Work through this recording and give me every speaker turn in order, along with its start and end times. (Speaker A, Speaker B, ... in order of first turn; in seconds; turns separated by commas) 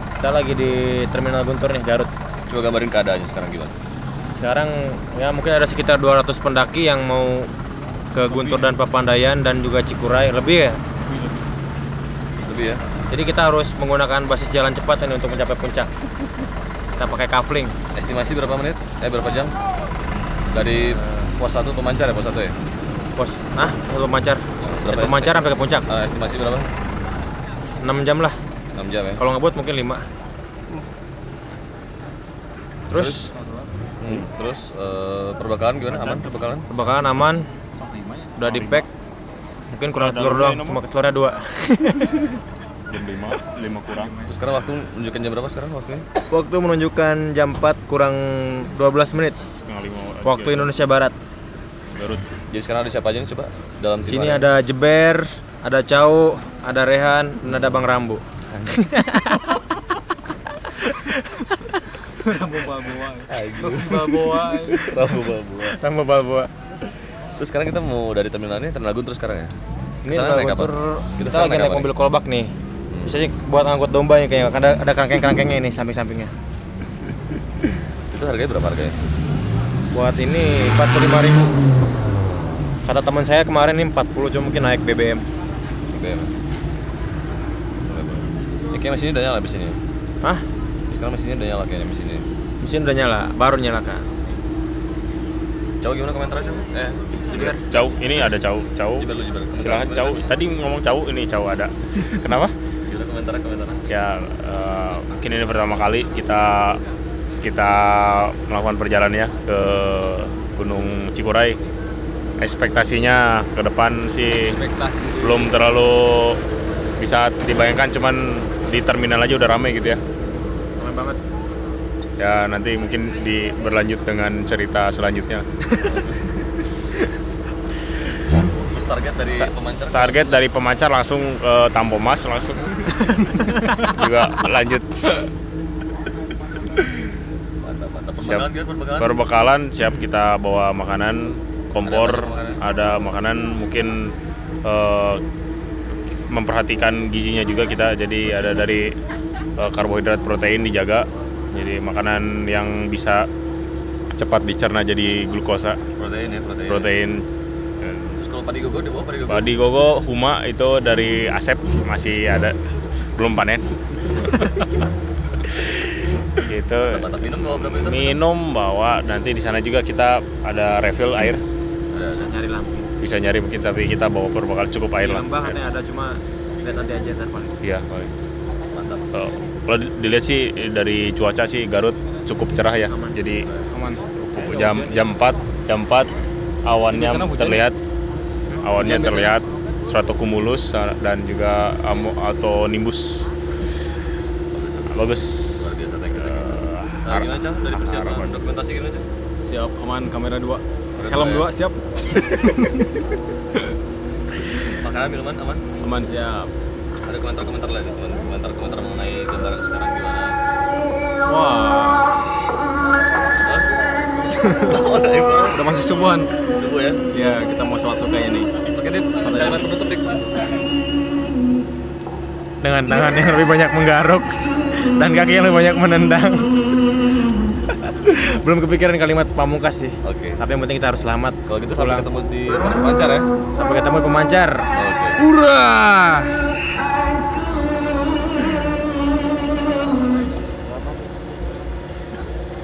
Speaker A: 0.2-2.1, Speaker B: 2.5-3.8, Speaker A: 4.3-7.5, Speaker A: 8.1-10.8, Speaker B: 12.4-12.8, Speaker A: 13.1-15.9, Speaker A: 17.0-17.7, Speaker B: 17.9-19.5, Speaker B: 20.5-22.6, Speaker A: 23.1-25.9, Speaker B: 24.6-26.7, Speaker A: 27.8-28.4, Speaker B: 28.7-29.2, Speaker A: 29.2-30.1, Speaker A: 32.9-33.3, Speaker B: 32.9-33.2, Speaker C: 33.3-33.7, Speaker B: 34.0-36.7, Speaker A: 36.7-37.5, Speaker C: 37.8-38.3, Speaker A: 38.4-38.9, Speaker D: 38.4-38.9, Speaker A: 39.7-42.4, Speaker D: 40.0-40.8, Speaker D: 42.9-44.1, Speaker C: 44.0-44.3, Speaker B: 44.2-46.1, Speaker A: 46.3-49.4, Speaker D: 49.6-50.9, Speaker A: 50.2-51.1, Speaker D: 51.9-52.2, Speaker B: 52.5-54.5, Speaker A: 54.0-59.6, Speaker B: 58.5-58.7, Speaker A: 60.7-61.8, Speaker C: 62.2-64.9, Speaker B: 63.3-65.8, Speaker A: 63.6-64.9, Speaker A: 65.6-66.5, Speaker B: 67.4-69.5, Speaker A: 70.0-72.5, Speaker B: 70.1-71.9, Speaker B: 72.9-73.2, Speaker A: 73.0-76.3, Speaker B: 78.1-79.0, Speaker A: 79.9-81.5, Speaker A: 82.8-85.2, Speaker B: 85.9-86.3, Speaker B: 87.8-89.8, Speaker B: 90.9-92.2, Speaker A: 92.6-94.0, Speaker B: 95.8-97.6, Speaker A: 97.3-97.6, Speaker D: 97.5-99.1, Speaker B: 99.0-100.3, Speaker D: 99.6-102.5, Speaker B: 102.9-103.8, Speaker D: 103.9-106.8, Speaker D: 107.4-111.6, Speaker D: 112.4-114.5, Speaker A: 114.7-115.1, Speaker C: 114.7-115.2, Speaker D: 115.2-116.4, Speaker D: 117.0-120.0, Speaker A: 120.8-121.2, Speaker D: 122.2-125.5, Speaker B: 125.8-126.5, Speaker B: 128.7-130.4, Speaker D: 129.4-134.9, Speaker B: 137.6-139.2, Speaker D: 138.2-138.4, Speaker D: 139.0-144.1, Speaker B: 141.8-142.6, Speaker D: 144.6-145.2, Speaker D: 146.3-148.9, Speaker D: 149.6-153.3, Speaker D: 154.1-155.8, Speaker B: 156.0-156.9, Speaker D: 156.7-157.2, Speaker D: 157.8-158.2, Speaker B: 158.2-159.5, Speaker D: 159.3-162.6, Speaker D: 163.2-163.7, Speaker D: 166.4-171.4, Speaker B: 166.9-168.1, Speaker B: 171.9-172.3, Speaker A: 172.1-172.9, Speaker D: 173.0-175.6, Speaker A: 175.0-177.5, Speaker D: 177.6-178.1, Speaker B: 178.7-179.1, Speaker D: 179.1-183.4, Speaker A: 182.9-183.2, Speaker A: 183.7-185.1, Speaker D: 184.3-186.1, Speaker D: 186.6-187.8, Speaker C: 187.0-187.5, Speaker D: 188.6-193.2, Speaker C: 188.8-189.3, Speaker B: 194.5-199.1, Speaker D: 194.9-198.4, Speaker C: 199.4-202.7, Speaker B: 201.0-201.5, Speaker B: 204.8-205.7, Speaker C: 205.8-206.5, Speaker B: 207.0-210.4, Speaker C: 211.3-212.0, Speaker B: 213.4-213.7, Speaker B: 214.6-215.6, Speaker C: 215.5-216.3, Speaker B: 216.5-217.0, Speaker C: 217.1-218.5, Speaker A: 217.2-217.8, Speaker B: 218.7-220.4, Speaker C: 219.3-219.7, Speaker A: 222.6-226.8, Speaker A: 227.8-232.1, Speaker B: 230.0-230.4, Speaker B: 231.5-233.3, Speaker A: 233.5-236.4, Speaker B: 234.7-235.2